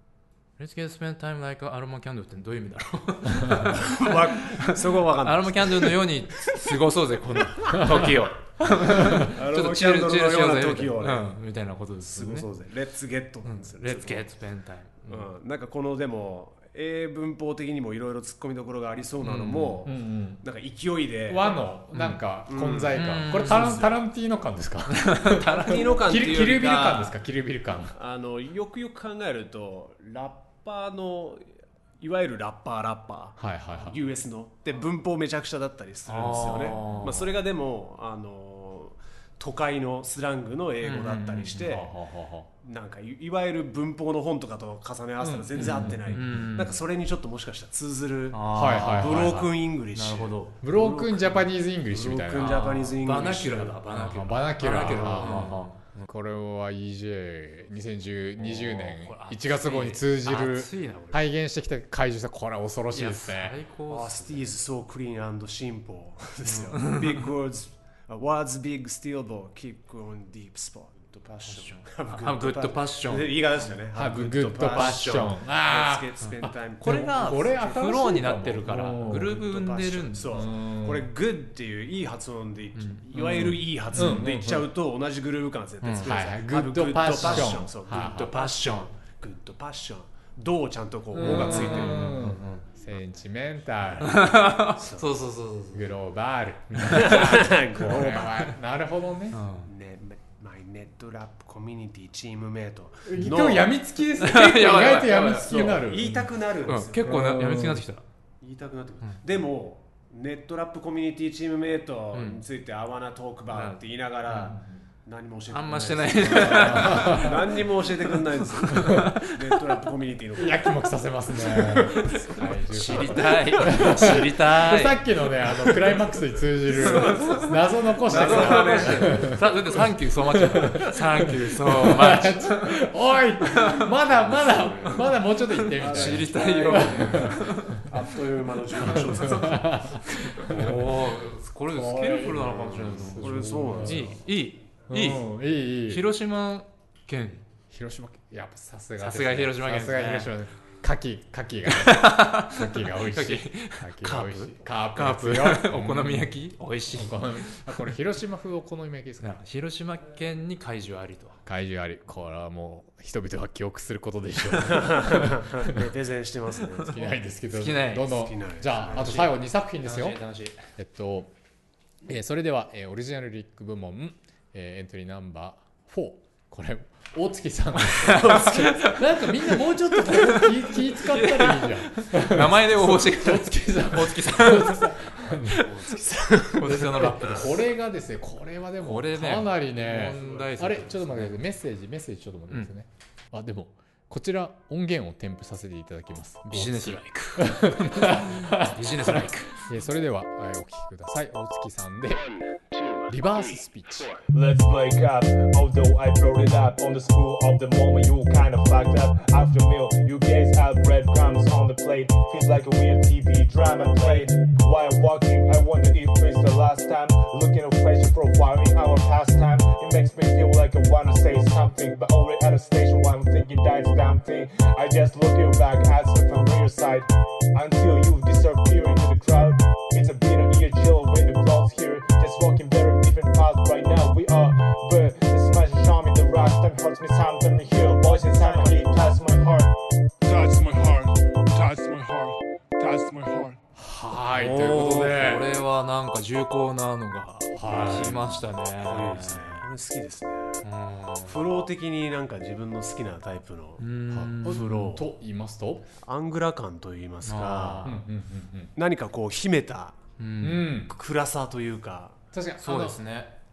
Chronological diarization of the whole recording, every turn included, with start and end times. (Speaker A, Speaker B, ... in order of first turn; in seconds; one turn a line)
Speaker A: 0.6-12.5
Speaker B: 3.7-6.7
Speaker B: 8.9-11.3
Speaker B: 12.0-14.3
Speaker A: 13.4-15.3
Speaker B: 15.1-21.6
Speaker A: 19.2-19.8
Speaker C: 19.8-20.4
Speaker C: 21.3-27.9
Speaker A: 21.9-22.2
Speaker B: 22.5-24.0
Speaker A: 22.9-23.9
Speaker A: 24.9-26.0
Speaker B: 25.6-27.2
Speaker B: 27.9-42.0
Speaker C: 33.4-34.0
Speaker A: 36.1-37.3
Speaker A: 40.8-41.6
Speaker C: 41.6-42.5
Speaker B: 42.6-53.9
Speaker C: 45.2-46.0
Speaker A: 45.5-46.8
Speaker A: 48.3-50.6
Speaker C: 48.5-49.5
Speaker C: 50.6-52.6
Speaker A: 52.4-56.1
Speaker C: 53.9-63.5
Speaker B: 54.6-55.6
Speaker A: 58.4-61.2
Speaker A: 62.9-64.5
Speaker B: 63.9-78.1
Speaker A: 66.5-67.3
Speaker A: 71.5-73.4
Speaker C: 73.9-76.2
Speaker A: 76.8-80.5
Speaker C: 76.8-79.3
Speaker B: 79.0-92.4
Speaker C: 80.3-81.1
Speaker A: 82.7-84.2
Speaker C: 83.3-84.7
Speaker A: 85.8-86.2
Speaker C: 86.0-88.3
Speaker A: 87.1-88.9
Speaker C: 91.1-94.5
Speaker A: 91.2-92.7
Speaker A: 94.0-95.9
Speaker B: 94.8-95.1
Speaker C: 95.7-99.4
Speaker B: 96.9-98.5
Speaker A: 96.9-98.5
Speaker A: 99.3-99.7
Speaker B: 99.6-103.8
Speaker C: 103.1-106.1
Speaker A: 104.2-106.1
Speaker B: 104.3-107.3
Speaker A: 106.7-108.0
Speaker C: 107.0-107.8
Speaker B: 108.4-124.0
Speaker A: 112.1-112.4
Speaker A: 113.5-114.6
Speaker A: 115.5-119.3
Speaker C: 116.3-117.4
Speaker C: 118.8-119.1
Speaker C: 120.4-129.4
Speaker A: 121.8-125.0
Speaker B: 125.4-126.0
Speaker B: 126.7-129.8
Speaker A: 126.8-127.5
Speaker A: 128.1-132.8
Speaker C: 130.5-130.9
Speaker C: 131.6-137.8
Speaker A: 133.4-134.9
Speaker B: 134.1-135.1
Speaker A: 135.6-137.9
Speaker B: 135.8-140.8
Speaker A: 138.8-145.2
Speaker C: 138.9-140.9
Speaker C: 141.7-144.2
Speaker B: 142.3-144.2
Speaker C: 144.9-146.1
Speaker A: 145.9-147.4
Speaker C: 147.7-156.3
Speaker A: 149.0-150.3
Speaker A: 151.7-157.9
Speaker C: 156.9-159.4
Speaker A: 159.2-161.4
Speaker C: 161.4-165.5
Speaker B: 164.5-167.2
Speaker C: 166.9-170.2
Speaker A: 167.5-168.3
Speaker B: 168.0-169.3
Speaker A: 168.8-170.6
Speaker C: 170.8-171.3
Speaker C: 172.0-185.7
Speaker A: 178.0-179.6
Speaker A: 180.1-185.7
Speaker B: 185.6-187.3
Speaker A: 186.5-187.6
Speaker C: 186.6-202.4
Speaker A: 188.8-191.4
Speaker B: 189.9-190.6
Speaker A: 196.5-199.6
Speaker C: 203.1-204.2
Speaker D: 204.3-239.7
Speaker E: 240.2-243.6
Speaker C: 243.8-245.5
Speaker B: 244.3-245.0
Speaker A: 244.4-249.6
Speaker C: 247.5-248.3
Speaker B: 247.7-250.6
Speaker A: 250.6-251.4
Speaker B: 251.2-253.8
Speaker A: 253.8-254.8
Speaker C: 254.1-255.9
Speaker B: 254.4-255.1
Speaker B: 256.0-257.9
Speaker A: 257.2-258.0
Speaker C: 257.8-258.7
Speaker B: 258.8-260.0
Speaker A: 260.2-260.7
Speaker C: 260.4-260.9
Speaker B: 260.9-262.2
Speaker C: 262.3-263.0
Speaker A: 262.6-263.3